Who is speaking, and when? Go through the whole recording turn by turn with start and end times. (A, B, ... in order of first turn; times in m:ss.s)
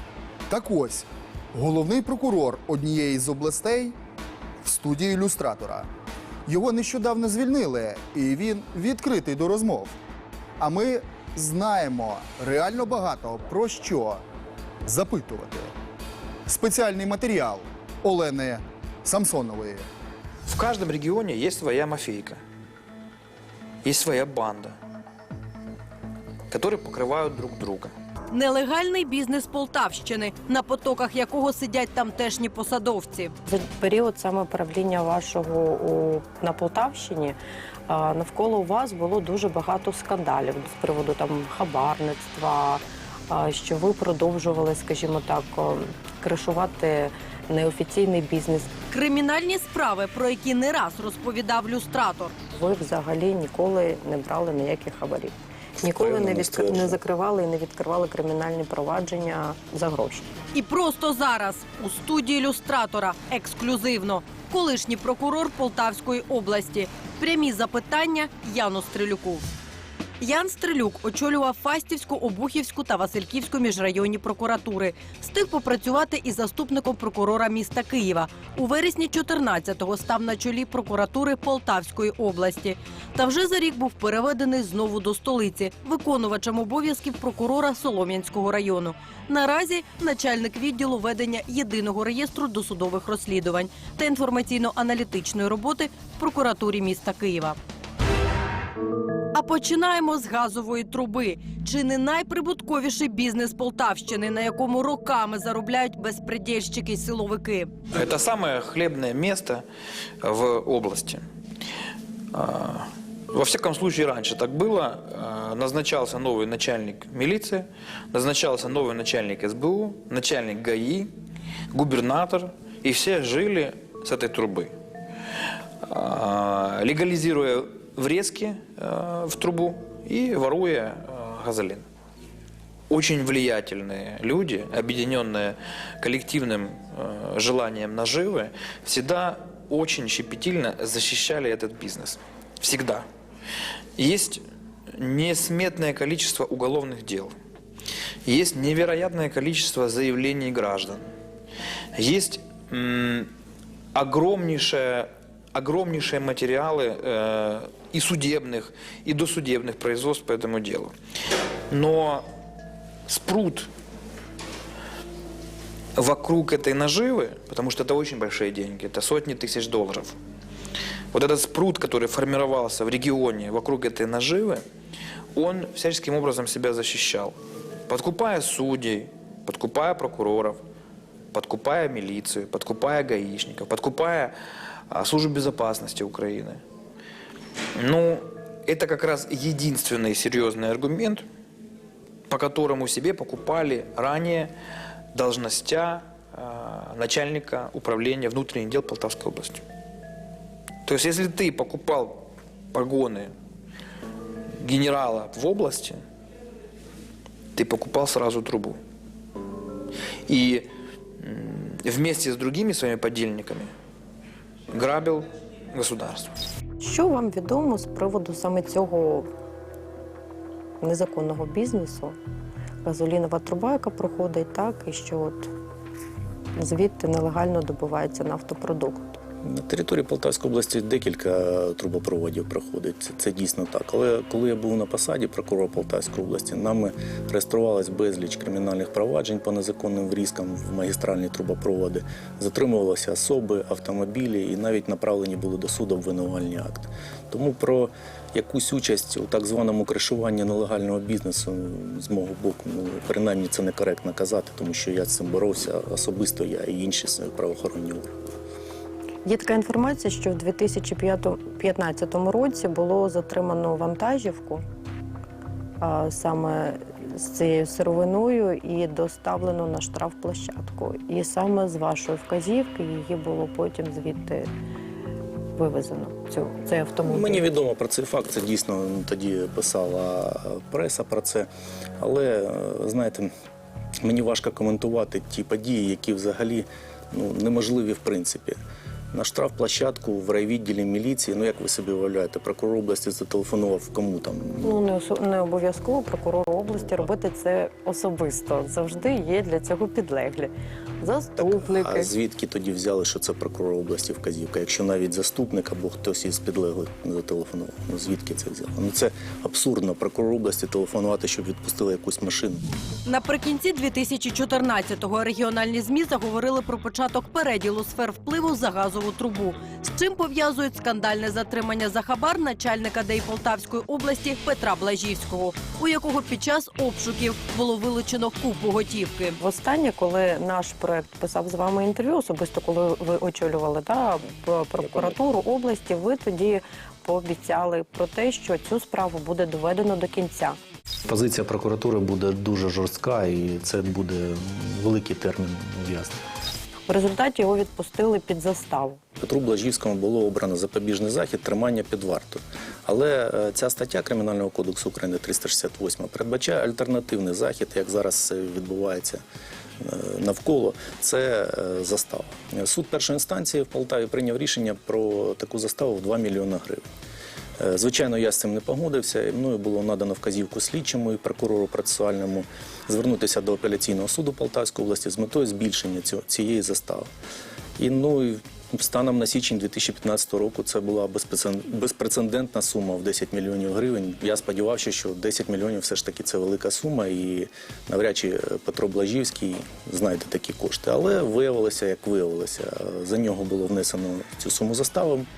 0:00.5-0:04.0 A
0:04.6-0:05.9 A
0:06.5-0:10.0 A
0:10.6-0:14.2 A
0:14.8-0:15.7 A
0:16.4-0:19.9 A
0:20.5-0:22.4 B
0:23.8-0:24.8 B
0:26.5-0:27.9 B
0:28.3-0:33.3 C
0:33.4-0:37.4 D
0:37.9-0:48.7 D
0:48.9-0:52.3 C
0:52.5-1:00.3 D
0:55.8-0:57.0 E
1:00.5-1:09.4 C
1:10.2-1:37.6 C
1:39.3-1:47.8 C
1:47.9-1:49.6 B
1:50.2-1:51.2 B
1:52.3-2:01.1 B
2:01.7-2:04.7 B
2:05.8-2:11.8 B
2:12.9-2:23.0 B
2:24.0-2:24.4 B
2:25.0-2:27.3 B
2:28.2-2:31.0 B
2:31.9-2:33.3 B
2:33.9-2:40.9 B
2:41.7-2:42.2 B
2:43.1-2:43.7 B
2:46.0-2:50.2 B
2:51.1-2:54.6 B
2:55.3-2:57.4 B
2:57.9-3:00.6 B
3:01.3-3:04.3 B
3:04.9-3:06.6 B
3:07.7-3:11.2 B
3:12.3-3:14.5 B
3:15.1-3:19.6 B
3:20.8-3:23.3 B
3:24.6-3:26.0 B
3:27.5-3:28.8 B
3:30.3-3:30.7 B
3:31.2-3:33.7 B
3:34.7-3:36.3 B
3:36.8-3:39.3 D
3:40.8-3:42.2 D
3:42.8-3:45.5 D
3:46.6-3:49.2 D
3:49.4-4:18.1 E
4:19.2-4:24.6 D
4:25.8-4:34.5 D
4:35.6-4:37.5 D
4:37.0-4:41.5 E
4:42.0-4:43.3 E
4:44.0-4:48.6 E
4:49.1-4:54.8 E
4:54.6-5:02.1 D
5:01.4-5:12.6 E
5:13.0-5:29.4 C
5:29.4-5:40.6 D
5:34.8-5:35.2 E
5:41.0-5:46.2 E
5:46.9-5:49.0 D
5:49.2-5:59.2 E
5:59.8-6:06.8 E
6:07.6-6:17.1 E
6:17.8-6:35.3 E